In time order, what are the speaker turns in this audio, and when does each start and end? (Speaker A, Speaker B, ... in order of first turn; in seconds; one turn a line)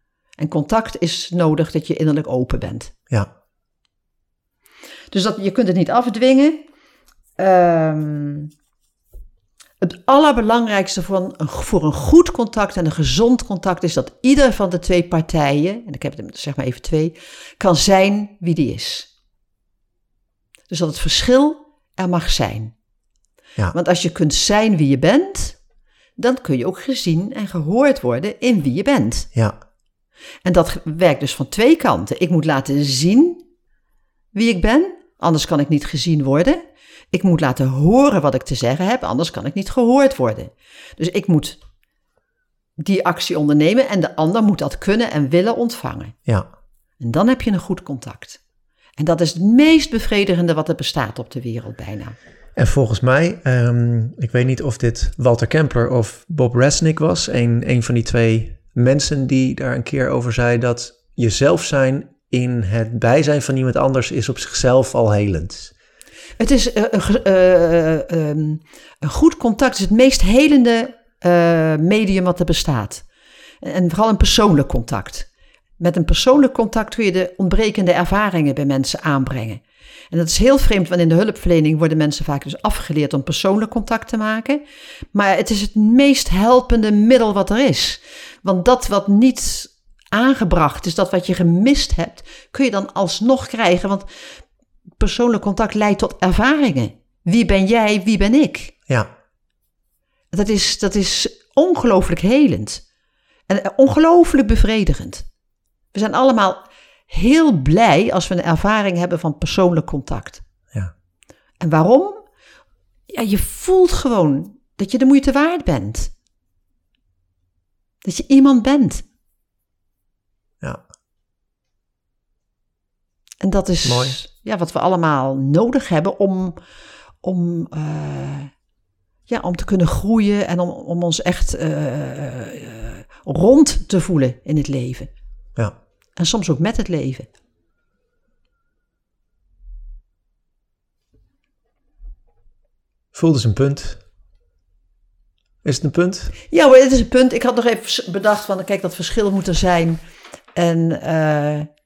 Speaker A: 0.4-2.9
Speaker A: 5.1-6.6
Speaker A: 7.4-8.5
Speaker A: 9.8-19.1
Speaker A: 20.7-22.7
Speaker A: 23.7-25.6
Speaker A: 26.2-29.3
Speaker A: 30.4-33.4
Speaker A: 34.3-41.6
Speaker A: 42.8-46.1
Speaker A: 47.0-48.4
Speaker A: 49.0-52.2
Speaker B: 52.6-65.7
Speaker A: 66.4-73.0
Speaker A: 73.6-75.3
Speaker A: 75.8-84.6
Speaker A: 85.1-94.4
Speaker A: 95.0-98.7
Speaker A: 100.3-102.8
Speaker A: 103.5-105.3
Speaker A: 105.9-110.4
Speaker A: 111.6-112.2
Speaker A: 113.1-116.1
Speaker A: 118.0-119.0
Speaker A: 123.4-126.6
Speaker B: 123.8-124.2
Speaker A: 127.2-128.5
Speaker A: 129.3-135.1
Speaker A: 136.2-137.3
Speaker B: 143.1-144.0
Speaker B: 145.6-146.3
Speaker A: 146.5-150.0
Speaker A: 150.6-151.7